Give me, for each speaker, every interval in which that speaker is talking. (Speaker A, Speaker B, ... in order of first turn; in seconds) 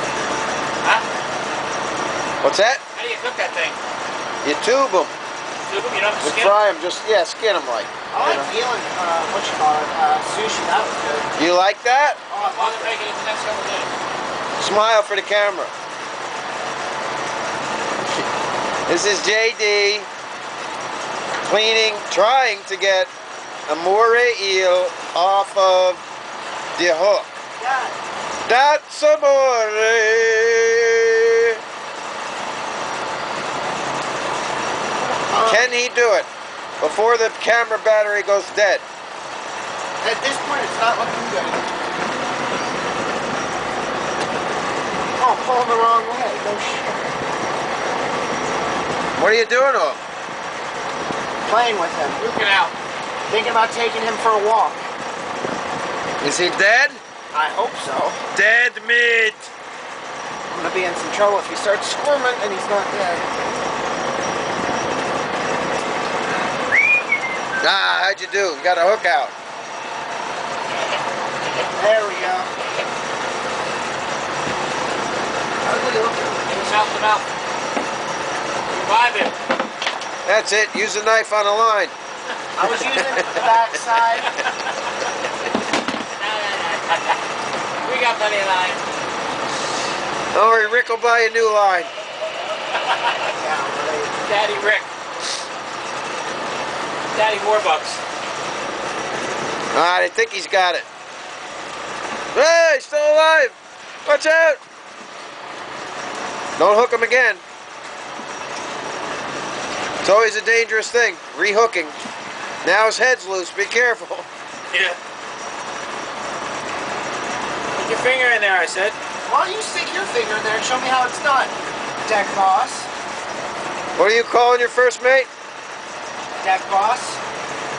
Speaker A: 2.4-2.8, 4.4-5.1, 6.2-8.5, 11.4-12.2, 14.6-15.7, 18.9-20.1, 21.4-23.1, 23.7-26.0, 26.8-27.3, 28.4-31.6, 35.4-36.3, 36.8-38.8, 49.1-50.0, 56.2-57.0, 58.3-59.5, 67.6-69.3, 80.2-81.9, 90.3-91.9, 99.7-100.8, 102.3-104.6, 106.6-107.4, 110.0-112.0, 112.6-114.3, 124.0-125.3
Speaker B: 2.9-3.8, 5.7-6.6, 12.4-13.9, 52.1-52.7, 76.5-77.2, 78.7-79.3, 86.1-87.2, 87.8-88.8, 94.2-94.9, 97.1-98.0, 114.7-115.0, 117.7-119.0
Speaker C: 8.1-11.3, 12.3-12.9, 27.6-28.0, 35.3-35.7, 40.0-41.7, 45.2-47.0, 51.4-52.2, 53.3-54.8, 57.3-58.2, 60.5-63.2, 71.8-72.5, 75.6-76.8, 82.5-84.3, 93.3-94.1, 119.2-122.9, 126.4-127.2